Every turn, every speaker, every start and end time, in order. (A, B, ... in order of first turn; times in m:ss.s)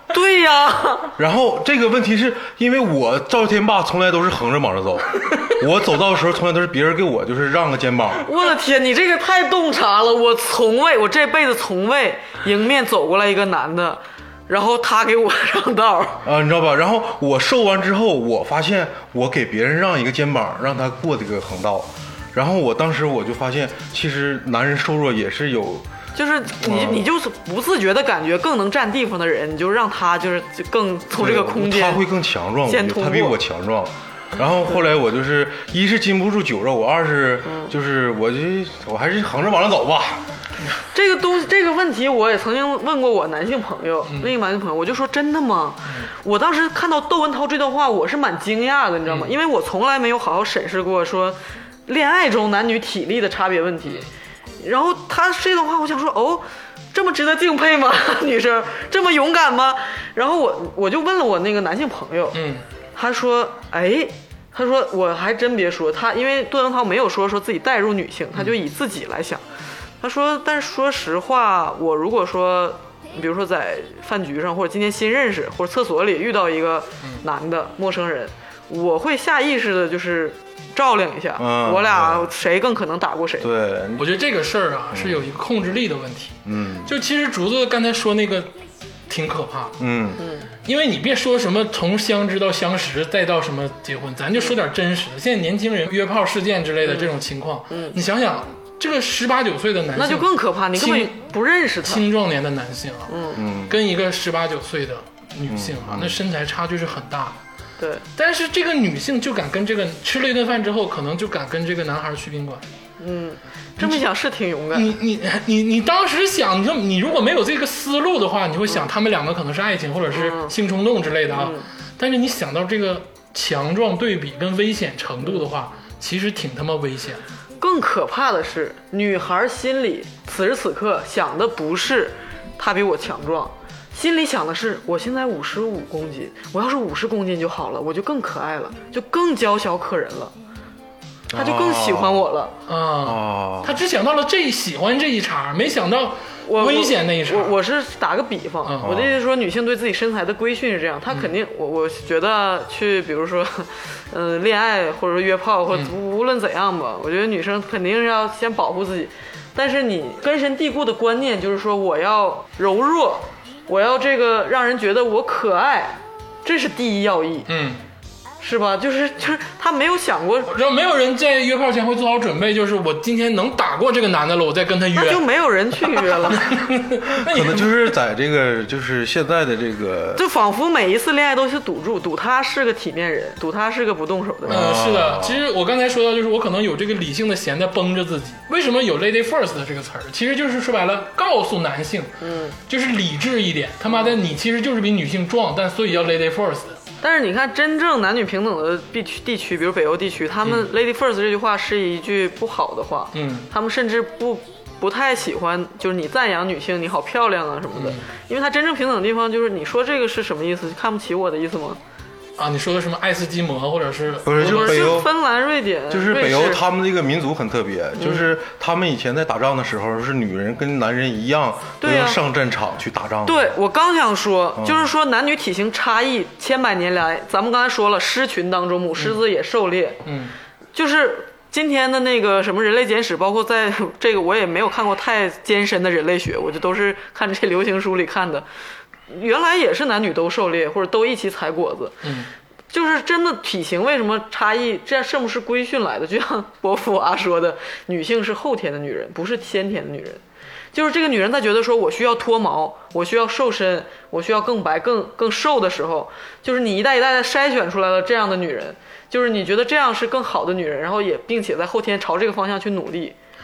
0:00.1-0:01.1 A
0:01.2-0:08.3 B
0:08.2-0:16.2 A
0:16.2-0:25.9 B
0:26.2-0:32.0 A
0:26.6-0:27.1 B
0:31.1-0:40.3 B
0:32.6-0:33.4 A
0:37.5-0:37.7 A
0:40.9-0:54.1 A
0:44.1-0:44.3 C
0:49.1-0:49.3 C
0:54.6-1:02.4 A
1:02.3-1:02.6 C
1:02.9-1:09.4 A
1:10.0-1:23.5 A
1:21.4-1:22.3 B
1:23.4-1:24.1 B
1:24.0-1:28.5 C
1:24.9-1:25.3 B
1:26.4-1:26.9 B
1:29.1-1:29.8 C
1:29.8-1:30.2 B
1:30.2-1:30.5 A
1:30.6-1:41.2 C
1:36.8-1:37.1 A
1:37.7-1:38.0 A
1:40.0-1:42.0 A
1:41.8-1:47.4 C
1:43.1-1:43.4 A
1:43.4-1:43.8 B
1:45.5-1:46.2 B
1:47.8-1:48.0 A
1:48.2-1:52.6 C
1:53.0-1:54.9 A
1:54.7-2:07.2 C
2:00.1-2:00.5 A
2:01.3-2:01.7 A
2:07.6-2:20.3 A
2:21.3-2:22.2 B
2:21.4-2:22.6 A
2:22.7-2:27.6 C
2:23.0-2:23.8 B
2:26.4-2:47.5 A
2:28.6-2:28.9 C
2:28.8-2:29.2 B
2:47.5-2:47.8 C
2:48.4-2:50.5 A
2:50.5-2:55.2 C
2:54.9-2:56.5 A
2:55.8-2:57.9 C
2:57.2-3:00.2 B
3:00.2-3:04.6 A
3:04.4-3:05.4 B
3:04.5-3:12.1 C
3:12.2-3:12.6 A
3:12.7-3:16.8 C
3:13.9-3:14.2 A
3:17.0-3:31.8 A
3:23.1-3:23.5 C
3:27.7-3:28.0 C
3:32.4-3:35.0 C
3:34.2-3:35.1 B
3:34.4-3:36.6 A
3:35.9-3:43.5 B
3:38.0-3:38.3 A
3:41.8-3:42.2 A
3:43.2-3:50.0 A
3:44.6-3:44.9 B
3:50.1-3:50.3 C
3:50.7-3:58.4 A
3:59.1-4:02.0 A
4:02.0-4:02.3 C
4:02.7-4:10.2 A
4:10.7-4:23.2 A